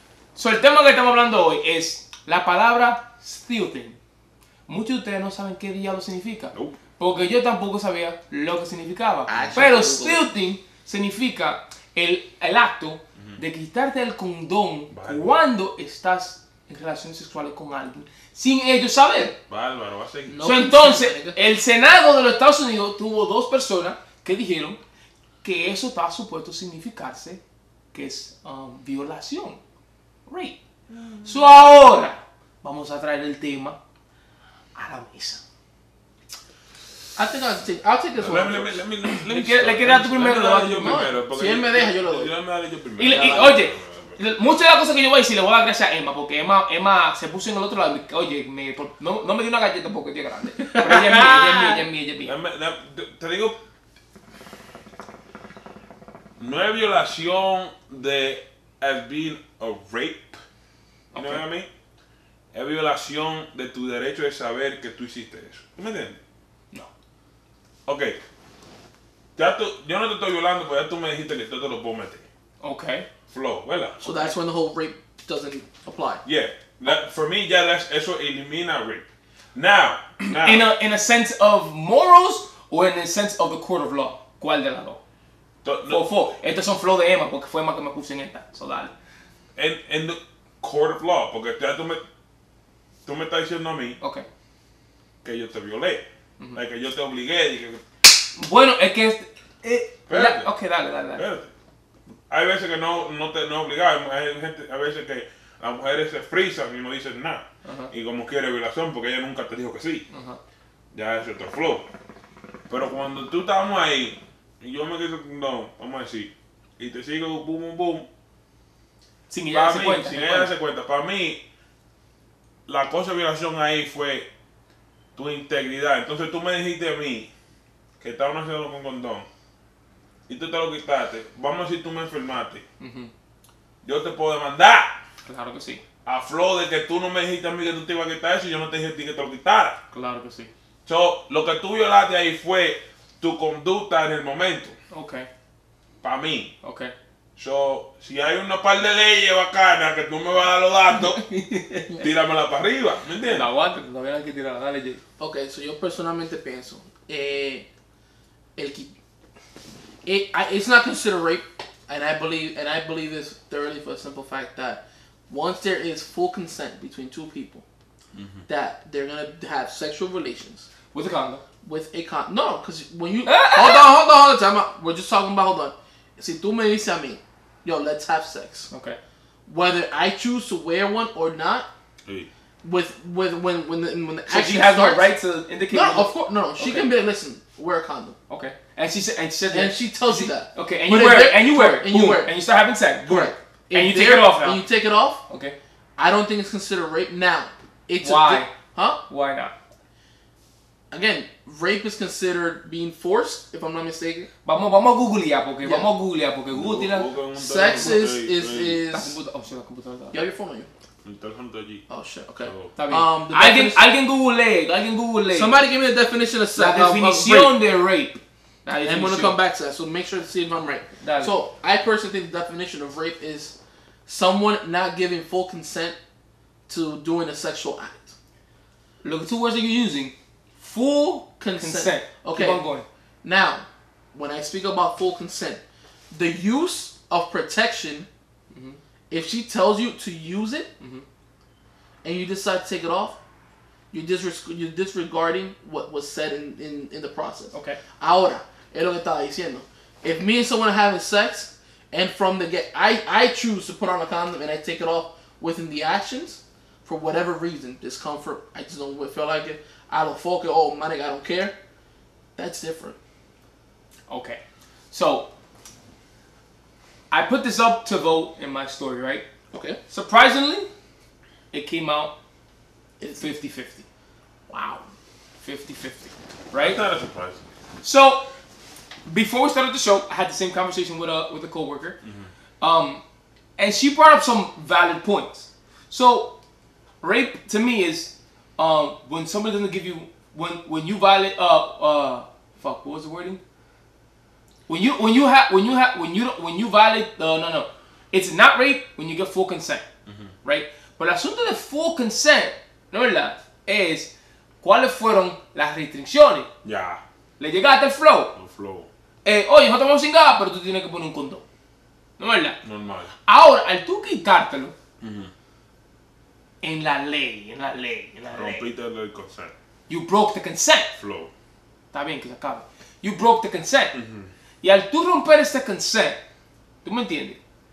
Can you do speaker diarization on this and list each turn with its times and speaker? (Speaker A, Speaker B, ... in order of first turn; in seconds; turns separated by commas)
Speaker A: 0.3-4.0, Speaker A: 4.7-19.4, Speaker B: 9.3-10.2, Speaker C: 14.9-15.4, Speaker C: 19.5-20.4, Speaker B: 20.3-21.4, Speaker A: 20.4-24.8, Speaker A: 25.4-27.4, Speaker A: 27.9-29.6, Speaker A: 30.3-30.6, Speaker A: 31.2-33.8, Speaker A: 34.7-35.4, Speaker B: 37.1-38.8, Speaker C: 38.1-44.2, Speaker A: 39.0-41.1, Speaker B: 40.8-42.4, Speaker A: 43.0-52.3, Speaker B: 43.0-43.5, Speaker B: 50.7-51.8, Speaker C: 52.2-53.6, Speaker C: 56.4-60.4, Speaker A: 61.1-61.4, Speaker C: 61.1-61.7, Speaker C: 62.5-66.2, Speaker C: 67.9-68.2, Speaker C: 69.4-72.2, Speaker A: 72.6-73.1, Speaker C: 73.3-74.1, Speaker B: 74.0-76.2, Speaker C: 76.2-80.7, Speaker A: 80.3-85.0, Speaker C: 85.6-86.3, Speaker A: 85.8-88.9, Speaker C: 89.5-92.0, Speaker C: 93.0-94.0, Speaker A: 94.0-94.2, Speaker C: 95.2-96.0, Speaker C: 96.5-97.8, Speaker A: 98.3-101.2, Speaker C: 100.1-100.5, Speaker C: 101.1-101.5, Speaker C: 102.3-110.0, Speaker A: 107.6-107.9, Speaker A: 110.1-110.4, Speaker C: 110.9-111.8, Speaker C: 112.7-118.1, Speaker A: 119.3-120.5, Speaker C: 119.5-121.4, Speaker C: 122.7-124.3, Speaker C: 125.2-127.3, Speaker C: 128.0-129.3, Speaker C: 130.3-132.6, Speaker A: 132.8-133.1, Speaker C: 133.8-135.0, Speaker A: 135.2-135.8, Speaker C: 136.1-139.8, Speaker A: 139.9-140.5, Speaker C: 140.8-144.8, Speaker A: 144.9-145.3, Speaker C: 146.0-146.5, Speaker A: 146.6-146.9, Speaker C: 147.4-151.2, Speaker A: 151.0-152.0, Speaker C: 152.0-153.5, Speaker A: 153.2-155.0, Speaker B: 155.2-157.7, Speaker B: 158.6-158.9, Speaker B: 160.0-167.6, Speaker C: 168.1-168.4, Speaker B: 168.5-170.7, Speaker A: 170.9-171.4, Speaker B: 171.6-178.7, Speaker A: 173.2-173.9, Speaker A: 178.7-179.0, Speaker B: 179.5-181.7, Speaker B: 182.6-185.1, Speaker A: 184.3-186.9, Speaker B: 185.7-188.2, Speaker A: 188.3-194.6, Speaker B: 189.5-192.3, Speaker B: 193.0-195.2, Speaker A: 195.3-195.6, Speaker B: 196.0-199.0, Speaker A: 198.0-198.5, Speaker A: 199.1-199.5, Speaker B: 200.9-204.3, Speaker A: 204.4-207.1, Speaker B: 205.6-205.9, Speaker C: 206.5-208.8, Speaker B: 207.3-209.2, Speaker A: 207.7-207.9, Speaker A: 208.9-210.2, Speaker B: 210.1-210.7, Speaker C: 211.0-211.8, Speaker B: 211.9-213.8, Speaker C: 212.4-212.7, Speaker A: 212.7-215.6, Speaker B: 215.3-217.6, Speaker A: 216.5-219.3, Speaker B: 218.8-225.9, Speaker A: 221.0-221.3, Speaker B: 226.7-228.1, Speaker A: 229.0-232.9, Speaker B: 231.4-232.6, Speaker B: 233.2-238.1, Speaker A: 238.5-238.8, Speaker B: 239.1-240.7, Speaker A: 240.8-241.1, Speaker B: 242.0-243.2, Speaker B: 243.9-261.5, Speaker A: 247.5-247.8, Speaker B: 262.4-262.9, Speaker A: 264.1-265.3, Speaker A: 267.1-269.2, Speaker B: 269.5-269.8, Speaker A: 269.9-270.7, Speaker A: 271.5-272.1, Speaker B: 273.0-273.3, Speaker A: 273.2-273.8, Speaker B: 274.5-274.8, Speaker A: 275.4-276.8, Speaker C: 276.5-277.4, Speaker A: 277.8-278.3, Speaker A: 279.1-282.0, Speaker C: 282.0-282.3, Speaker A: 282.6-283.0, Speaker A: 283.6-286.4, Speaker A: 287.0-293.4, Speaker A: 294.7-299.8, Speaker C: 300.1-300.3, Speaker A: 300.4-304.1, Speaker A: 304.6-306.5, Speaker C: 306.6-307.0, Speaker A: 307.4-308.3, Speaker C: 308.4-308.9, Speaker A: 309.2-311.4, Speaker A: 312.2-312.6, Speaker C: 312.6-313.1, Speaker A: 313.2-314.7, Speaker C: 315.0-315.3, Speaker A: 316.6-318.7, Speaker C: 318.3-319.5, Speaker A: 319.9-320.9, Speaker C: 320.9-321.3, Speaker A: 321.9-323.9, Speaker C: 323.9-324.3, Speaker A: 324.6-326.2, Speaker A: 326.8-327.4